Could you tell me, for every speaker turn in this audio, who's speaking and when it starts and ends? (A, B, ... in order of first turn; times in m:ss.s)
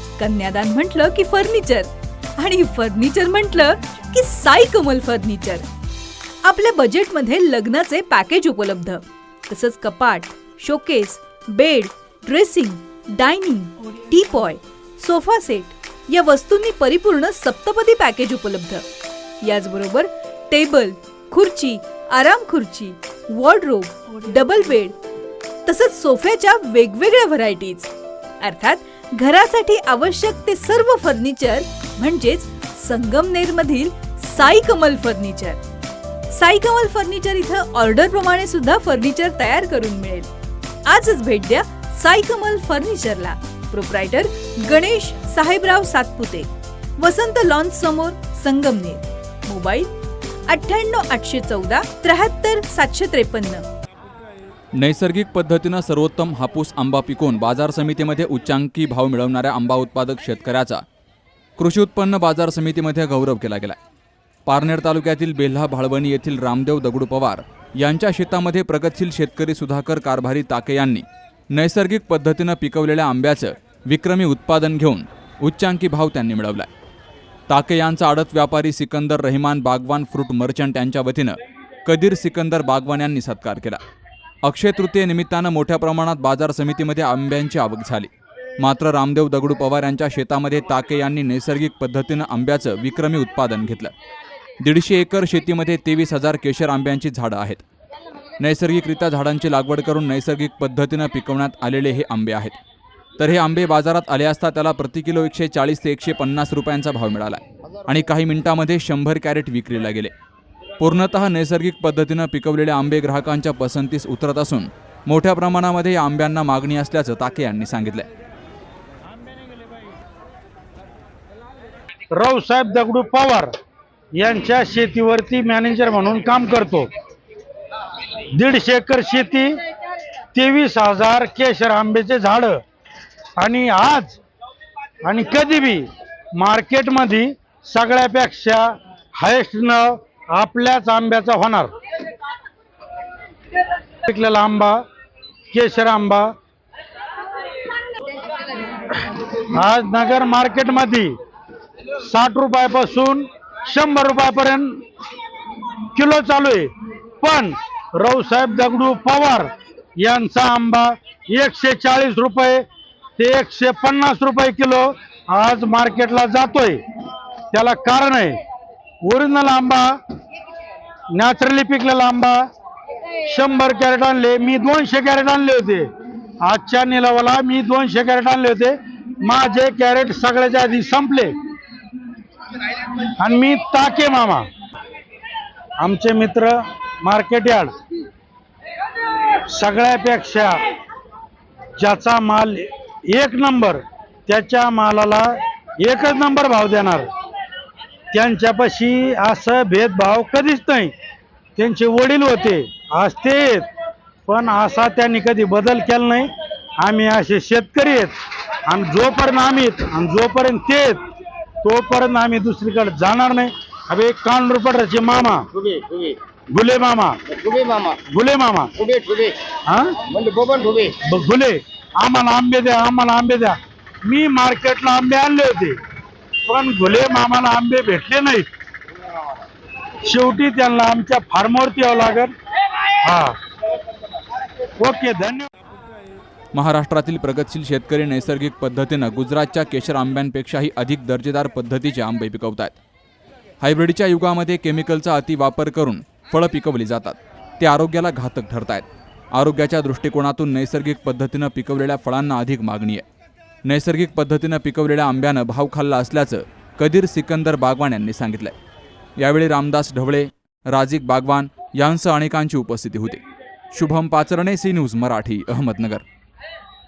0:00.2-0:05.7 A
0:06.4-0:18.8 A
0:19.4-0:25.0 A
0:25.7-0:35.6 A
0:36.3-0:40.3 A
0:40.8-0:49.9 A
0:50.5-0:53.6 A
0:54.8-1:00.8 B
1:01.6-1:03.8 B
1:04.5-1:16.7 B
1:17.5-1:23.8 B
1:24.4-1:33.9 B
1:34.6-1:37.6 B
1:38.4-1:42.6 B
1:43.2-1:50.1 B
1:50.8-1:58.1 B
2:02.2-2:03.5 C
2:04.2-2:06.9 C
2:08.4-2:09.6 C
2:10.3-2:12.6 C
2:13.4-2:14.2 C
2:15.0-2:15.8 C
2:16.4-2:18.7 C
2:19.2-2:21.7 C
2:24.0-2:24.8 C
2:25.5-2:26.3 C
2:29.1-2:31.1 C
2:32.0-2:34.8 C
2:36.0-2:42.6 C
2:43.2-2:46.8 C
2:47.5-2:48.4 C
2:49.0-2:49.9 C
2:51.1-2:52.4 C
2:53.3-2:55.9 C
2:56.4-3:01.3 C
3:03.2-3:04.5 C
3:05.8-3:07.7 C
3:09.5-3:10.6 C
3:11.8-3:17.1 C
3:18.1-3:20.9 C
3:21.6-3:23.7 C
3:24.3-3:26.3 C
3:26.8-3:28.2 C
3:28.7-3:31.0 C
3:31.6-3:35.5 C
3:35.7-3:36.1 D
3:36.5-3:37.3 C
3:37.5-3:37.9 D
3:38.0-3:38.8 C
3:38.9-3:39.3 D
3:39.7-3:40.1 C
3:40.2-3:40.8 D
3:40.8-3:45.8 C
3:46.5-3:48.4 C
3:50.1-3:52.3 C
3:53.0-3:53.4 C
3:54.8-3:55.5 C
3:56.5-4:02.8 B
4:03.6-4:13.0 B
4:13.7-4:18.5 B
4:19.2-4:23.2 B
4:23.7-4:26.0 B